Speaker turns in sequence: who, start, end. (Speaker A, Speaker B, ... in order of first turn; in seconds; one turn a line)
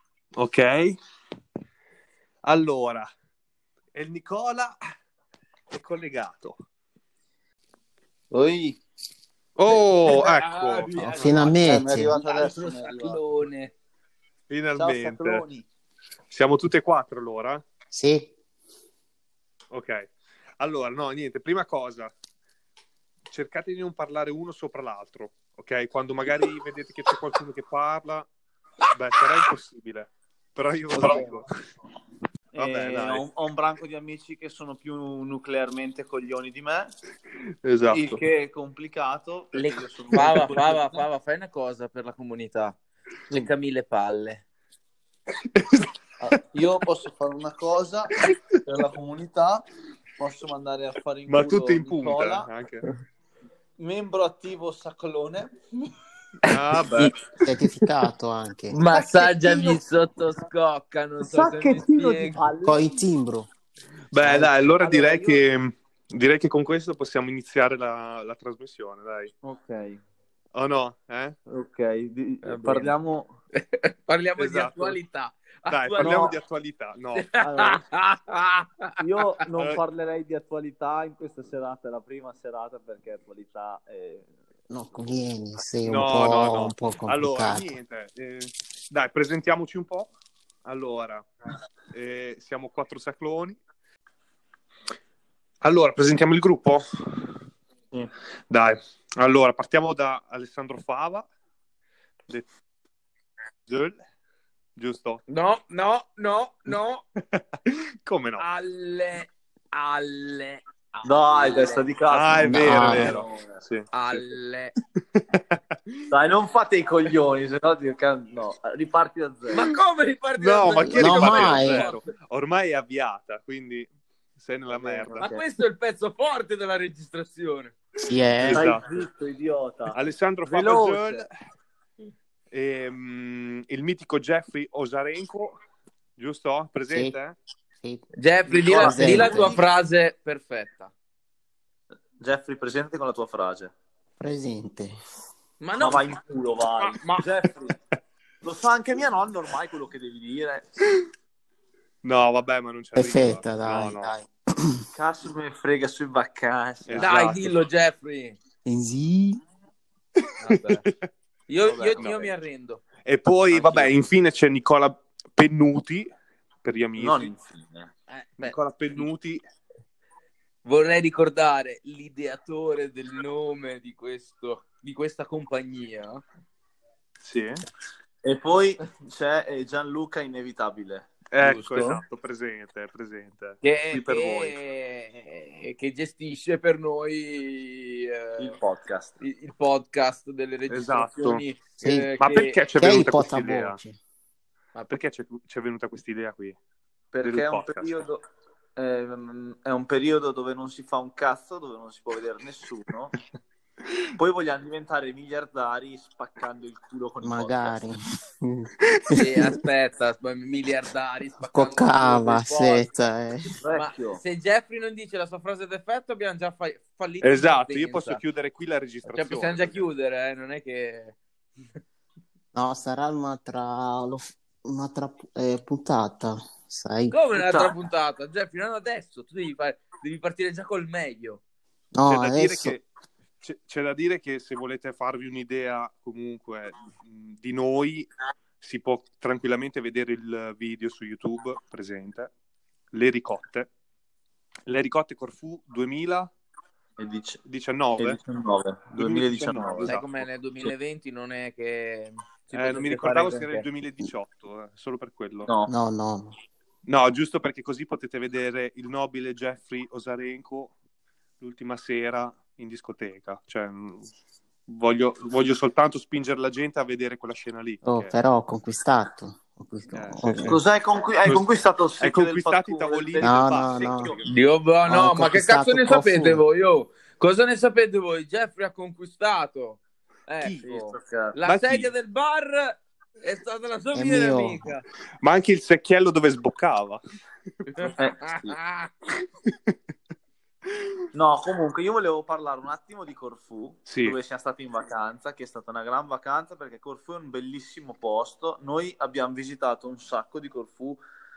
Speaker A: 0.3-1.0
Speaker A: 2.4-3.1
Speaker A: 3.9-4.8
Speaker A: 5.7-6.5
Speaker B: 8.3-8.8
Speaker A: 9.6-10.9
Speaker C: 9.7-13.7
Speaker B: 10.9-13.2
Speaker D: 11.0-12.1
Speaker A: 14.5-15.4
Speaker B: 14.8-15.7
Speaker A: 16.3-17.6
Speaker D: 17.9-18.3
Speaker A: 19.7-22.1
Speaker A: 23.3-28.3
Speaker A: 28.9-31.5
Speaker B: 31.0-31.3
Speaker B: 32.5-36.9
Speaker A: 32.6-33.2
Speaker A: 37.6-38.2
Speaker B: 37.9-41.0
Speaker C: 39.5-42.8
Speaker C: 43.3-44.4
Speaker A: 45.5-45.9
Speaker B: 46.2-49.7
Speaker B: 50.2-52.5
Speaker A: 51.3-52.9
Speaker B: 53.8-55.6
Speaker A: 56.5-57.1
Speaker D: 57.4-58.8
Speaker B: 58.7-59.8
Speaker C: 58.8-62.4
Speaker B: 61.2-62.9
Speaker D: 62.6-63.5
Speaker A: 64.1-69.3
Speaker D: 64.2-64.5
Speaker B: 64.8-65.4
Speaker B: 69.4-70.0
Speaker A: 70.5-71.4
Speaker B: 71.5-73.3
Speaker C: 72.4-72.9
Speaker C: 73.5-76.3
Speaker A: 74.4-75.0
Speaker A: 75.7-77.3
Speaker B: 76.0-76.4
Speaker C: 77.2-79.0
Speaker B: 77.4-77.8
Speaker B: 79.0-84.3
Speaker D: 84.7-87.7
Speaker A: 85.8-90.1
Speaker A: 90.7-91.3
Speaker A: 91.9-93.6
Speaker A: 95.6-97.3
Speaker A: 98.5-101.3
Speaker A: 103.7-104.0
Speaker A: 104.8-105.2
Speaker C: 105.3-107.0
Speaker A: 107.3-108.5
Speaker C: 108.4-111.9
Speaker B: 111.0-113.6
Speaker A: 112.1-114.3
Speaker D: 112.4-113.2
Speaker C: 113.9-114.7
Speaker A: 115.2-116.0
Speaker B: 116.1-119.6
Speaker C: 119.5-122.1
Speaker A: 120.4-125.2
Speaker D: 121.0-121.9
Speaker B: 124.7-125.4
Speaker C: 125.2-127.7
Speaker D: 128.1-128.7
Speaker A: 128.4-128.8
Speaker B: 128.5-131.3
Speaker A: 129.9-131.3
Speaker A: 132.5-135.6
Speaker A: 136.2-137.3
Speaker D: 136.9-137.2
Speaker D: 137.8-138.1
Speaker C: 138.2-140.9
Speaker B: 138.5-139.6
Speaker D: 138.7-139.6
Speaker B: 142.2-143.7
Speaker D: 144.2-144.9
Speaker C: 145.6-146.1
Speaker B: 145.8-147.8
Speaker C: 146.8-147.2
Speaker B: 148.4-150.7
Speaker A: 152.0-154.1
Speaker D: 153.0-154.8
Speaker B: 154.9-157.5
Speaker A: 156.8-157.5
Speaker C: 157.0-158.4
Speaker D: 158.7-159.4
Speaker C: 160.4-160.8
Speaker A: 160.7-161.1
Speaker C: 161.5-162.8
Speaker B: 161.6-162.3
Speaker A: 162.0-162.2
Speaker A: 163.0-166.1
Speaker C: 163.5-163.9
Speaker A: 166.6-167.3
Speaker B: 167.0-168.6
Speaker A: 168.4-169.4
Speaker C: 170.7-176.2
Speaker A: 177.2-177.6
Speaker B: 178.2-181.9
Speaker A: 181.3-184.5
Speaker C: 181.4-181.9
Speaker C: 183.6-188.6
Speaker B: 188.4-189.2
Speaker C: 189.2-192.6
Speaker A: 190.7-191.4
Speaker D: 191.8-192.1
Speaker A: 192.2-193.8
Speaker D: 192.8-194.0
Speaker C: 194.8-195.0
Speaker A: 194.9-196.6
Speaker B: 197.1-198.2
Speaker A: 197.2-197.9
Speaker B: 198.8-203.2
Speaker B: 204.2-207.8
Speaker D: 207.2-209.6
Speaker C: 209.2-212.9
Speaker D: 211.5-213.6
Speaker B: 213.6-214.2
Speaker C: 213.7-218.2
Speaker A: 217.2-219.8
Speaker C: 219.1-221.2
Speaker D: 222.5-227.2
Speaker C: 227.1-231.4
Speaker B: 227.3-227.8
Speaker D: 231.9-232.8
Speaker A: 232.1-232.8
Speaker A: 233.4-238.1
Speaker A: 238.6-242.3
Speaker A: 242.9-243.7
Speaker A: 244.7-246.3
Speaker B: 247.0-247.4
Speaker A: 247.4-248.2
Speaker B: 248.0-249.9
Speaker A: 248.9-250.1
Speaker C: 249.8-253.7
Speaker A: 252.5-255.5
Speaker B: 255.5-255.7
Speaker D: 255.7-256.3
Speaker A: 256.9-260.7
Speaker A: 261.4-264.1
Speaker A: 264.7-268.1
Speaker D: 267.8-270.6
Speaker A: 269.9-270.6
Speaker B: 270.4-274.3
Speaker A: 272.0-274.3
Speaker D: 273.2-274.1
Speaker C: 274.2-284.8
Speaker D: 274.9-276.4
Speaker B: 280.6-281.4
Speaker A: 281.4-281.9
Speaker D: 283.9-284.6
Speaker A: 285.2-287.0
Speaker C: 287.7-288.9
Speaker B: 287.9-288.6
Speaker B: 291.1-301.0
Speaker A: 293.9-294.2